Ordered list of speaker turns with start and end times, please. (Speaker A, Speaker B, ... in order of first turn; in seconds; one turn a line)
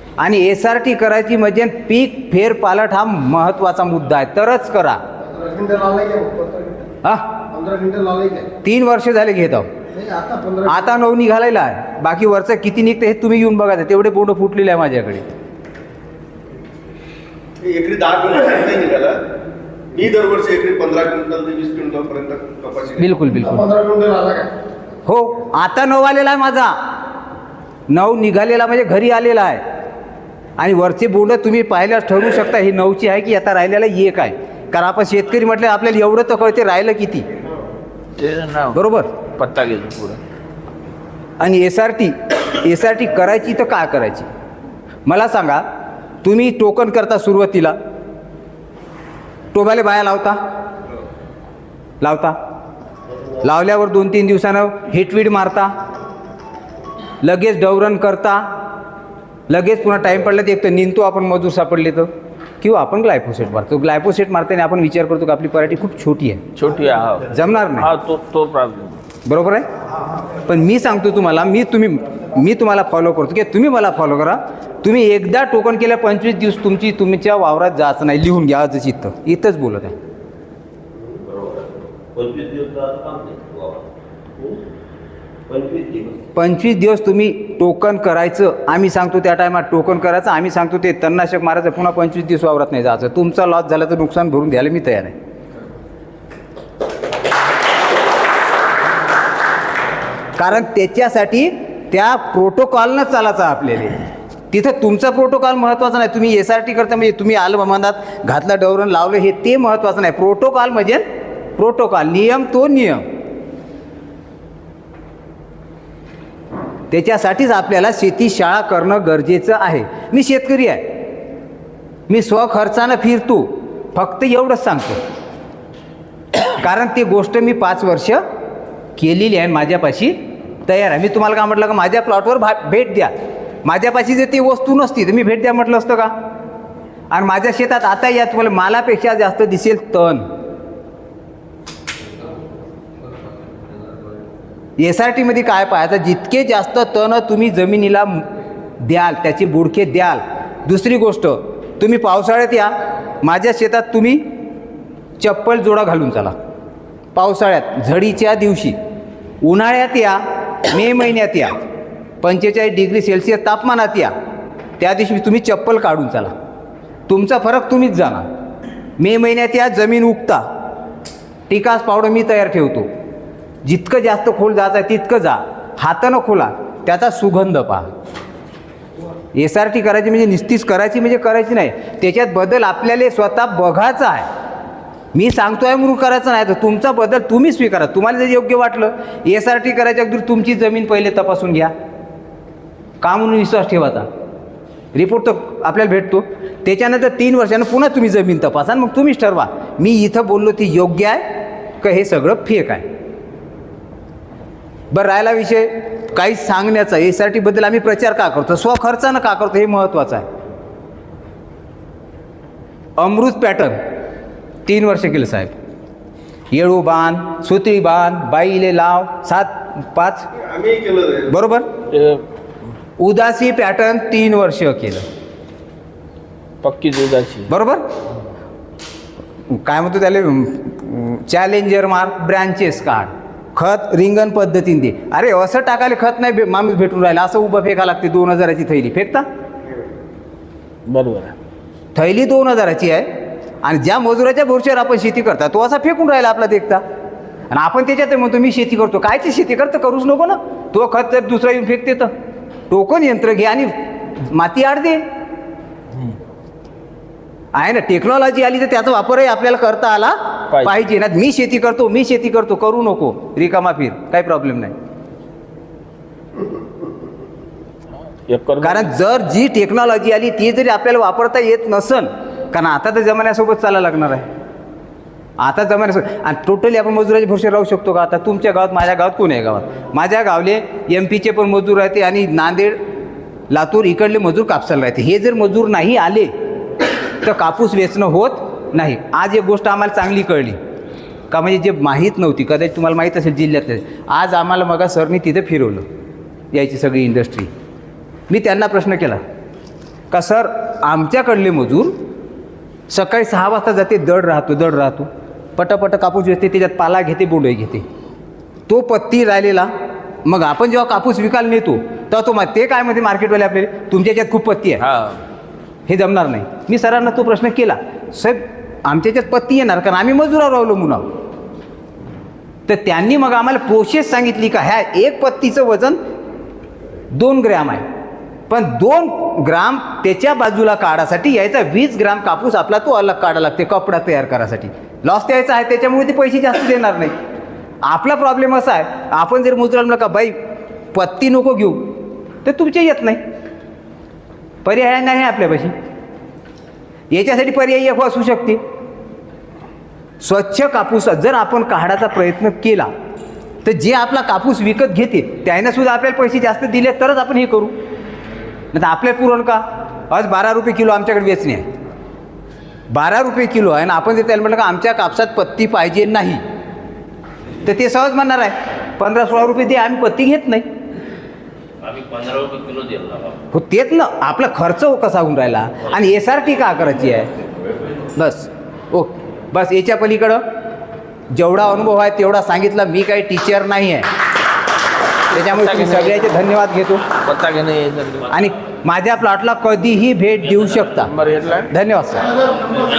Speaker A: 0.2-5.0
Speaker B: 5.3-6.8
Speaker A: 7.0-7.3
Speaker B: 7.6-8.4
Speaker A: 8.6-9.7
Speaker B: 10.0-10.6
Speaker A: 10.6-15.2
Speaker C: 17.6-19.2
Speaker C: 19.9-23.1
Speaker A: 23.0-23.9
Speaker B: 23.9-24.4
Speaker A: 25.1-26.7
Speaker A: 27.9-29.6
Speaker A: 30.6-37.2
Speaker D: 38.2-38.8
Speaker A: 38.7-39.1
Speaker D: 39.3-40.2
Speaker A: 41.4-44.3
Speaker A: 45.0-45.6
Speaker A: 46.2-47.7
Speaker A: 49.5-50.4
Speaker A: 52.0-52.4
Speaker A: 53.4-55.7
Speaker A: 57.2-58.4
Speaker A: 59.5-62.1
Speaker A: 62.6-66.4
Speaker D: 66.5-69.0
Speaker A: 67.3-67.9
Speaker A: 69.2-69.7
Speaker A: 70.5-79.9
Speaker D: 82.1-83.8
Speaker D: 85.5-86.1
Speaker A: 86.3-95.1
Speaker A: 100.3-111.0
Speaker A: 111.6-113.0
Speaker A: 116.9-120.8
Speaker A: 122.1-125.0
Speaker A: 126.5-128.2
Speaker A: 129.0-133.1
Speaker A: 133.6-136.1
Speaker A: 137.1-140.2
Speaker A: 144.8-148.2
Speaker A: 148.8-154.2
Speaker A: 155.2-156.3
Speaker A: 157.1-158.8
Speaker A: 159.4-161.6
Speaker A: 162.2-164.1
Speaker A: 164.8-166.3
Speaker A: 167.1-168.2
Speaker A: 169.0-170.4
Speaker A: 171.5-172.9
Speaker A: 173.6-177.9
Speaker A: 179.3-184.3
Speaker A: 185.1-191.7
Speaker A: 193.0-194.1
Speaker A: 194.9-201.2
Speaker A: 201.8-202.8
Speaker A: 204.9-210.2
Speaker A: 213.0-213.8
Speaker A: 214.7-215.5
Speaker A: 216.5-220.3
Speaker C: 220.3-221.3
Speaker A: 221.3-221.7
Speaker D: 221.9-222.2
Speaker A: 223.0-225.0
Speaker D: 226.6-227.5
Speaker A: 227.5-227.8
Speaker A: 229.5-239.2
Speaker D: 240.8-241.3
Speaker A: 241.9-243.1
Speaker A: 243.6-246.8
Speaker A: 247.5-252.1
Speaker A: 252.7-255.0
Speaker A: 257.5-264.7
Speaker D: 260.5-260.9
Speaker D: 268.3-268.9
Speaker A: 268.6-274.2
Speaker A: 275.4-282.8
Speaker A: 283.5-286.3
Speaker A: 287.2-290.6
Speaker A: 291.3-295.8
Speaker A: 296.5-297.5
Speaker A: 298.3-299.2
Speaker A: 300.1-301.9
Speaker A: 302.9-307.8
Speaker A: 308.7-309.7
Speaker A: 310.2-314.8
Speaker D: 314.8-315.2
Speaker A: 315.9-321.1
Speaker A: 322.7-326.0
Speaker A: 327.1-327.8
Speaker A: 328.5-337.1
Speaker A: 337.8-340.3
Speaker A: 340.9-341.9
Speaker A: 342.4-343.2
Speaker A: 344.6-345.7
Speaker A: 347.1-348.6
Speaker A: 350.2-352.9
Speaker A: 353.6-357.7
Speaker A: 358.7-361.6
Speaker A: 362.9-366.4
Speaker A: 367.6-370.6
Speaker D: 372.2-373.1
Speaker A: 373.5-377.3
Speaker A: 378.1-380.4
Speaker A: 381.3-384.1
Speaker A: 385.3-387.1
Speaker D: 385.3-386.4
Speaker D: 387.1-388.5
Speaker A: 388.3-391.1
Speaker D: 390.8-391.7
Speaker A: 391.7-392.4